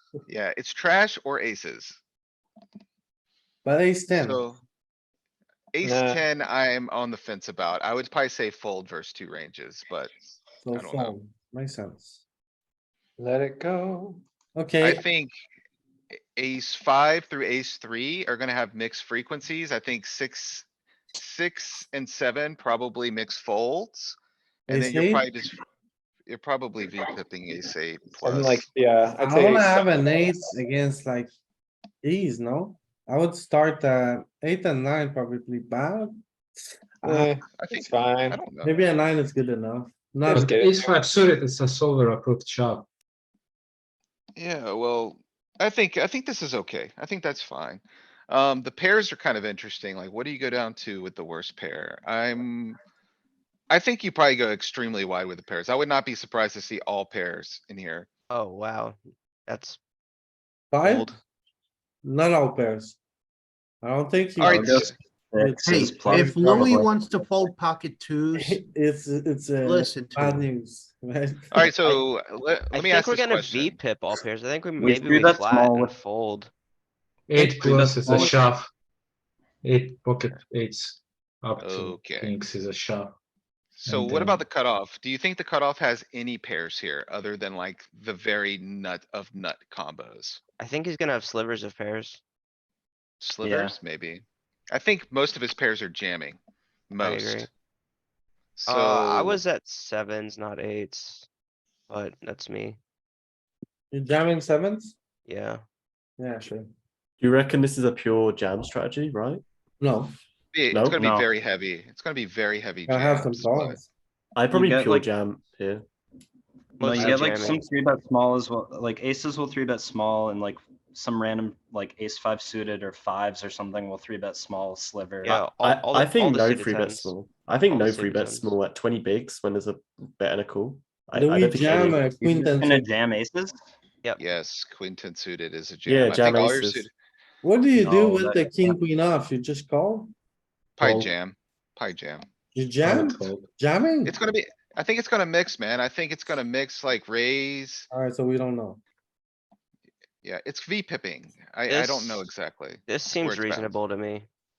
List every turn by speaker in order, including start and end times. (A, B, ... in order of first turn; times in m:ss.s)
0:00.3-0:02.0 A
0:03.6-0:04.5 B
0:04.1-0:04.6 A
0:05.7-0:10.1 A
0:05.8-0:06.2 C
0:10.6-0:12.2 B
0:10.7-0:11.2 A
0:13.2-0:14.2 C
0:14.6-0:15.0 B
0:14.8-0:15.3 A
0:16.4-0:24.2 A
0:24.7-0:25.2 B
0:24.7-0:25.6 A
0:26.3-0:28.6 A
0:28.2-0:30.3 C
0:29.1-0:31.3 B
0:32.0-0:37.4 B
0:37.0-0:38.5 C
0:37.6-0:38.8 A
0:38.6-0:40.5 B
0:40.2-0:41.2 C
0:40.3-0:42.9 D
0:44.4-0:52.8 A
0:53.7-0:58.1 A
0:58.3-0:59.8 E
1:00.7-1:01.2 B
1:00.8-1:01.2 E
1:02.0-1:03.0 B
1:03.8-1:04.8 B
1:04.4-1:04.9 A
1:04.4-1:06.9 F
1:05.4-1:06.6 B
1:05.7-1:08.5 G
1:08.3-1:11.6 B
1:09.6-1:10.5 G
1:11.5-1:13.8 A
1:11.8-1:12.1 E
1:12.7-1:16.5 E
1:14.8-1:15.9 F
1:17.3-1:18.7 D
1:17.4-1:18.4 F
1:19.6-1:23.2 D
1:21.6-1:22.3 A
1:23.8-1:30.4 A
1:23.9-1:24.4 D
1:30.6-1:32.2 E
1:33.2-1:36.4 A
1:33.4-1:33.8 F
1:36.9-1:37.5 A
1:37.0-1:37.5 E
1:38.6-1:39.4 A
1:38.7-1:41.2 E
1:41.9-1:42.8 E
1:43.9-1:44.9 B
1:45.2-1:45.6 E
1:46.2-1:46.7 B
1:47.2-1:49.4 H
1:49.8-1:50.2 B
1:50.5-1:53.8 A
1:50.7-1:51.0 H
1:51.0-1:51.3 F
1:52.9-1:53.9 B
1:54.3-1:55.8 H
1:54.5-1:55.1 F
1:56.8-1:57.6 E
1:56.8-2:05.5 F
2:05.2-2:07.1 E
2:05.5-2:12.1 H
2:07.7-2:08.6 E
2:11.2-2:12.9 B
2:11.7-2:13.6 F
2:14.2-2:16.9 A
2:15.8-2:16.9 H
2:17.4-2:20.1 B
2:17.8-2:18.8 F
2:20.8-2:22.2 A
2:22.5-2:24.2 B
2:22.8-2:23.5 D
2:24.0-2:27.9 A
2:27.9-2:28.8 B
2:30.2-2:33.8 A
2:31.7-2:32.3 E
2:32.9-2:34.3 E